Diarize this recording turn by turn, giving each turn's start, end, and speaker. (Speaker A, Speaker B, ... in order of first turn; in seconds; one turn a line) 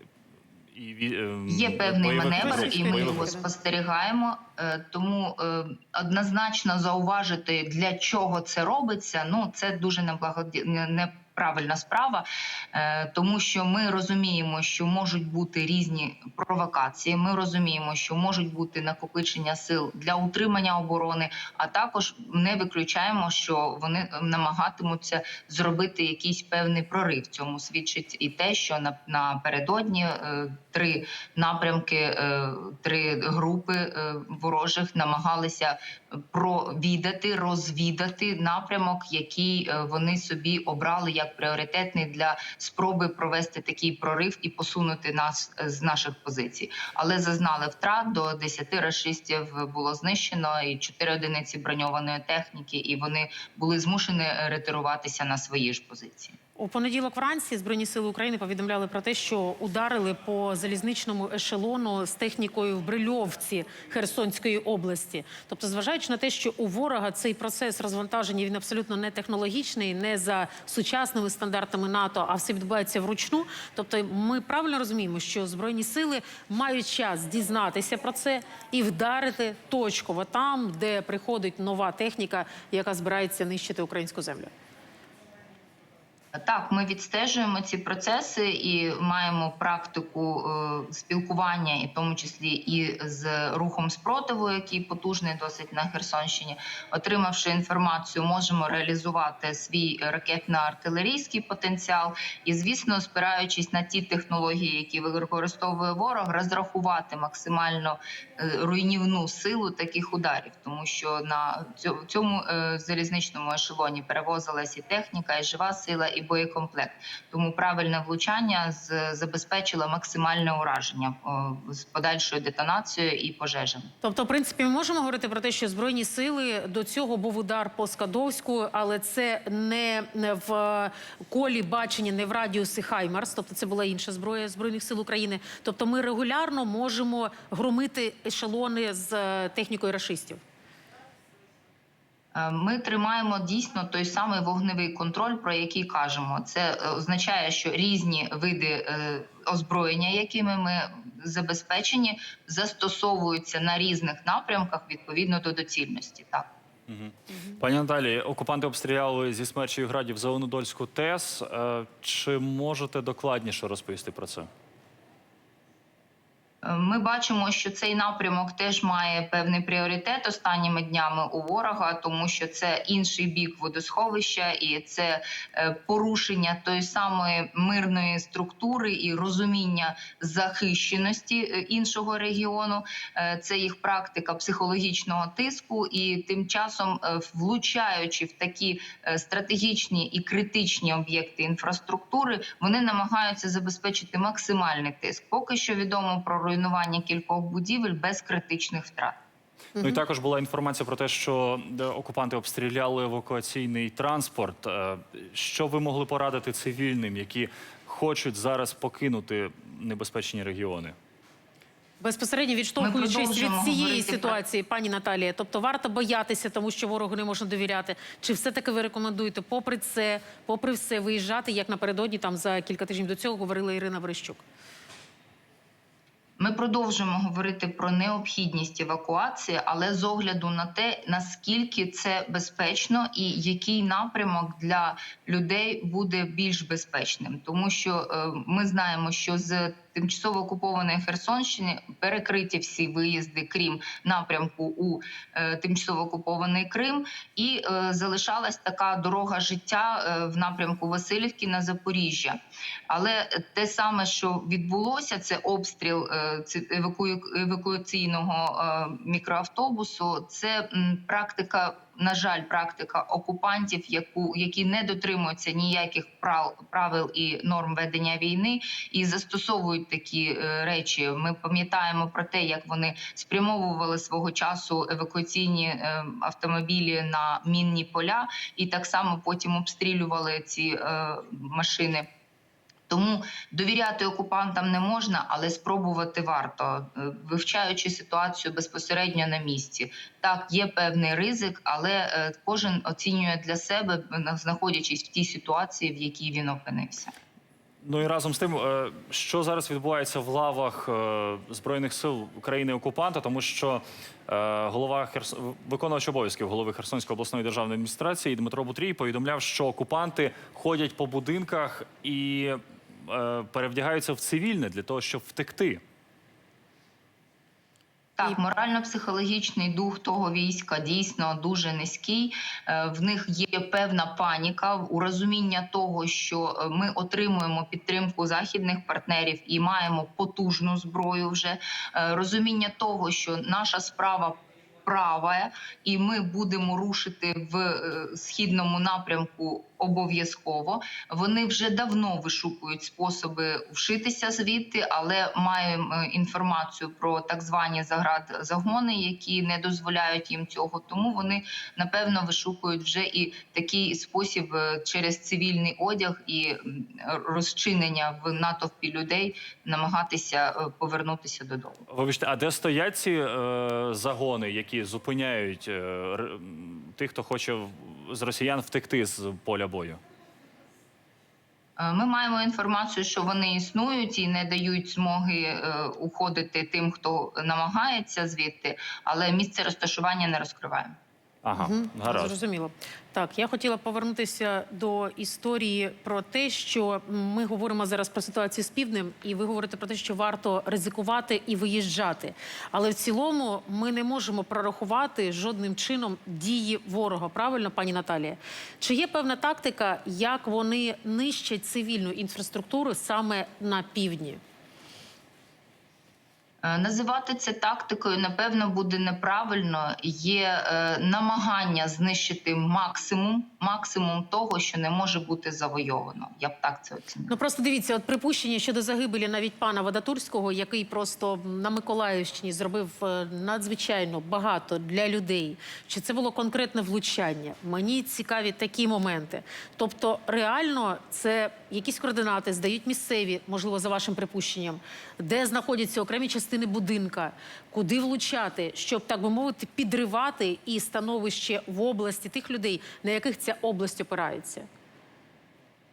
Speaker A: 0.7-3.3
Speaker B: 1.5-56.4
Speaker C: 2.4-3.5
Speaker C: 56.6-84.5
Speaker B: 86.3-123.9
Speaker C: 124.0-140.4
Speaker B: 142.3-156.5
Speaker A: 156.9-164.5
Speaker B: 166.6-199.2
Speaker A: 199.8-210.9
Speaker C: 212.0-224.4
Speaker B: 212.8-214.4
Speaker B: 226.4-282.1
Speaker B: 282.9-297.1
Speaker A: 297.8-315.8
Speaker B: 318.2-361.8
Speaker A: 361.9-370.0
Speaker B: 371.8-381.0
Speaker A: 381.4-382.3
Speaker C: 381.6-404.4
Speaker B: 406.6-417.4
Speaker C: 417.3-444.7